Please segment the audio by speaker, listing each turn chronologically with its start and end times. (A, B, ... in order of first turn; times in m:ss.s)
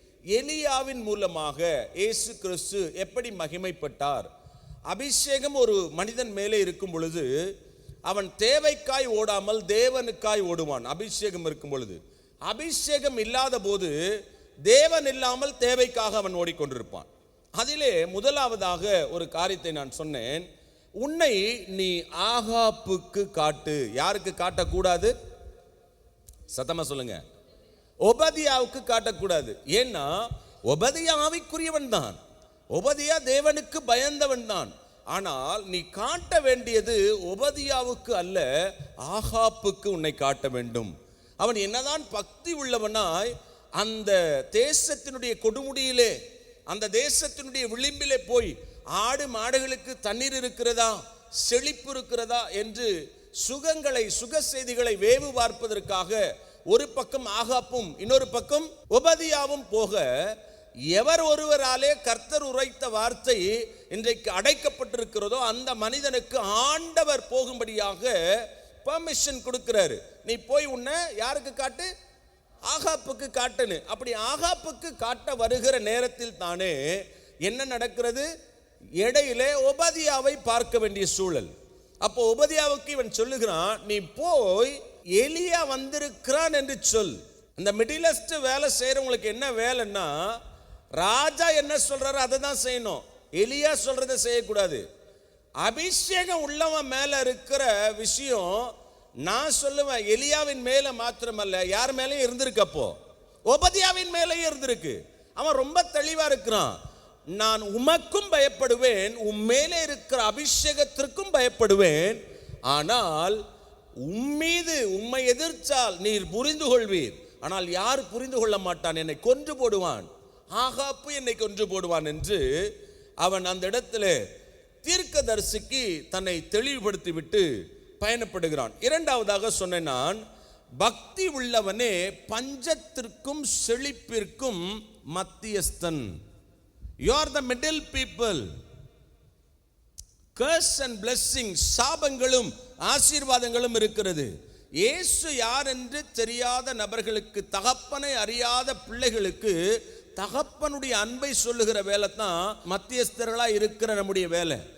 0:00.3-0:04.3 A
0:04.9-0:07.3 A
0:08.1-0:14.0 A
0:14.7-0:20.5 A
0:21.0-0:25.1 A
0:26.5-0:27.2 A
0:28.0-0:32.2 A
0:32.7-0:38.5 A
0:39.0-0:46.2 A
0:46.7-1:00.3 A
1:00.9-1:08.2 A
1:08.8-1:11.9 A
1:12.7-1:18.3 A
1:19.0-1:21.5 A
1:22.0-1:30.4 A
1:31.0-1:34.8 A
1:35.6-1:38.7 A
1:39.2-1:43.0 A
1:43.5-1:46.8 A
1:47.3-1:53.4 A
1:54.0-2:02.5 A
2:03.2-2:04.2 A
2:04.8-2:07.5 A
2:08.0-2:10.2 A
2:10.8-2:16.2 A
2:17.0-2:18.5 A
2:20.4-2:24.3 A
2:24.8-2:29.6 A
2:30.2-2:34.6 A